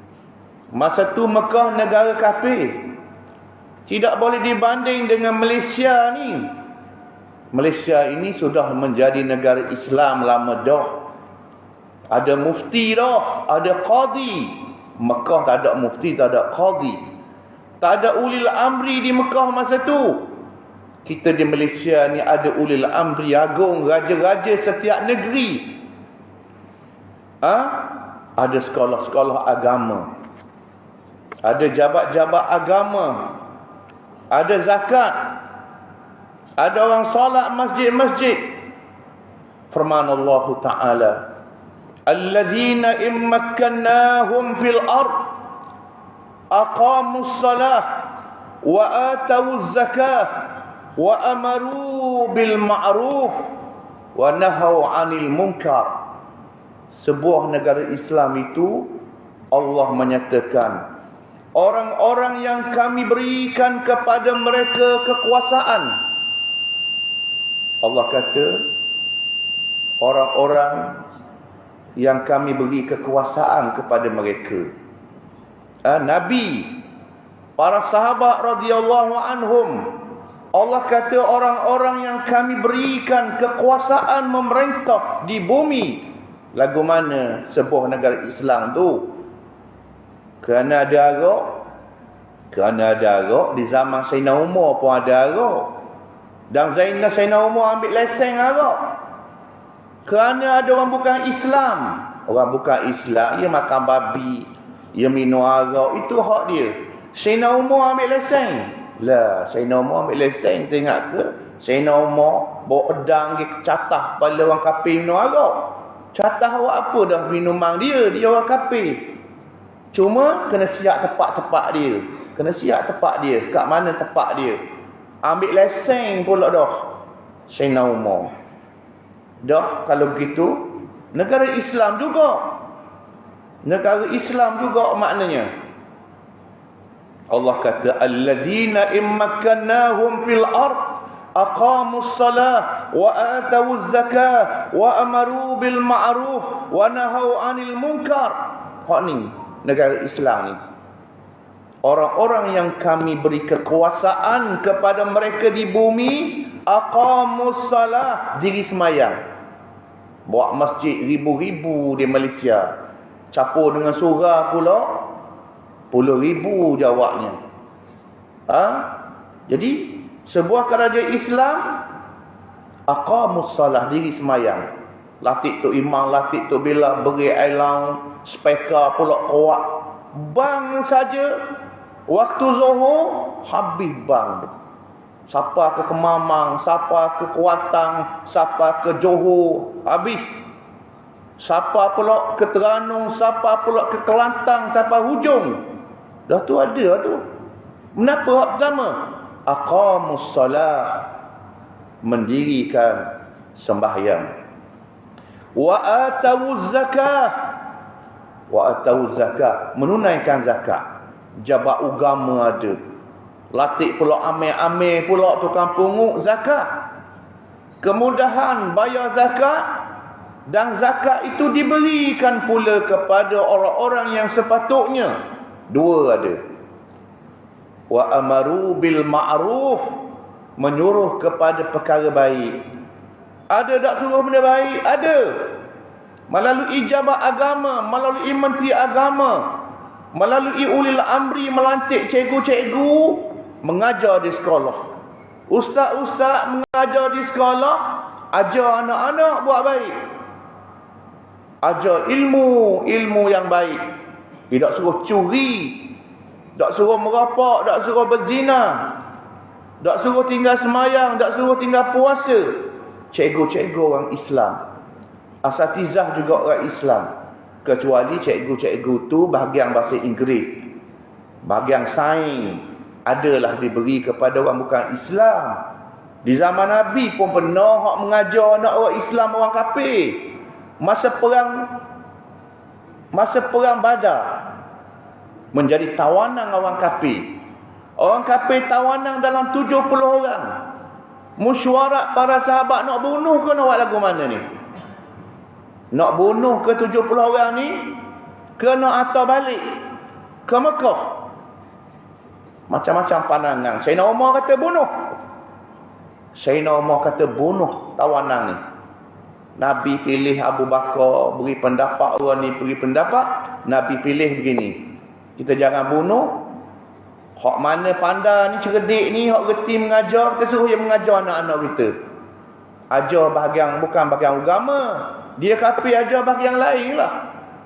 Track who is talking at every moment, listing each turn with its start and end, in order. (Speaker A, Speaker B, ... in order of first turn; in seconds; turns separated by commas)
Speaker A: 0.7-2.9, Speaker A: 3.9-6.5, Speaker A: 7.5-11.1, Speaker A: 12.1-17.0, Speaker A: 17.8-20.3, Speaker A: 21.0-25.8, Speaker A: 27.4-30.1, Speaker A: 31.4-33.4, Speaker A: 34.3-35.4, Speaker A: 36.6-38.6, Speaker A: 39.7-41.3, Speaker A: 42.0-45.4, Speaker A: 46.5-48.1, Speaker A: 48.6-53.5, Speaker A: 54.1-56.1, Speaker A: 56.9-60.9, Speaker A: 61.5-66.0, Speaker A: 67.8-68.7, Speaker A: 70.0-71.0, Speaker A: 72.0-74.7, Speaker A: 75.8-76.8, Speaker A: 77.6-89.2, Speaker A: 90.4-91.7, Speaker A: 92.5-95.8, Speaker A: 96.5-99.0, Speaker A: 100.0-119.2, Speaker A: 119.9-124.6, Speaker A: 125.2-128.3, Speaker A: 129.4-132.6, Speaker A: 133.6-135.5, Speaker A: 137.3-150.6, Speaker A: 151.8-159.2, Speaker A: 160.2-162.7, Speaker A: 163.3-165.1, Speaker A: 165.9-167.4, Speaker A: 168.5-171.8, Speaker A: 172.9-174.6, Speaker A: 175.2-181.4, Speaker A: 182.1-184.5, Speaker A: 185.3-190.3, Speaker A: 191.4-195.6, Speaker A: 196.3-197.2, Speaker A: 197.9-201.1, Speaker A: 202.0-204.3, Speaker A: 205.5-207.6, Speaker A: 208.5-210.9, Speaker A: 211.4-212.8, Speaker A: 213.5-216.9, Speaker A: 217.8-219.9, Speaker A: 220.5-225.1, Speaker A: 225.7-226.4, Speaker A: 227.9-232.7, Speaker A: 233.5-235.6, Speaker A: 236.3-244.9, Speaker A: 245.5-249.9, Speaker A: 251.6-253.8, Speaker A: 254.5-256.0, Speaker A: 256.6-259.0, Speaker A: 259.8-264.6, Speaker A: 265.4-267.1, Speaker A: 267.6-270.7, Speaker A: 271.4-275.7, Speaker A: 276.2-281.8, Speaker A: 283.1-284.5, Speaker A: 285.5-287.4, Speaker A: 288.0-290.6, Speaker A: 291.4-294.4, Speaker A: 295.9-298.0, Speaker A: 298.6-299.8, Speaker A: 300.4-301.3, Speaker A: 302.7-305.1, Speaker A: 306.3-308.6, Speaker A: 309.6-316.5, Speaker A: 317.4-322.0, Speaker A: 322.9-327.3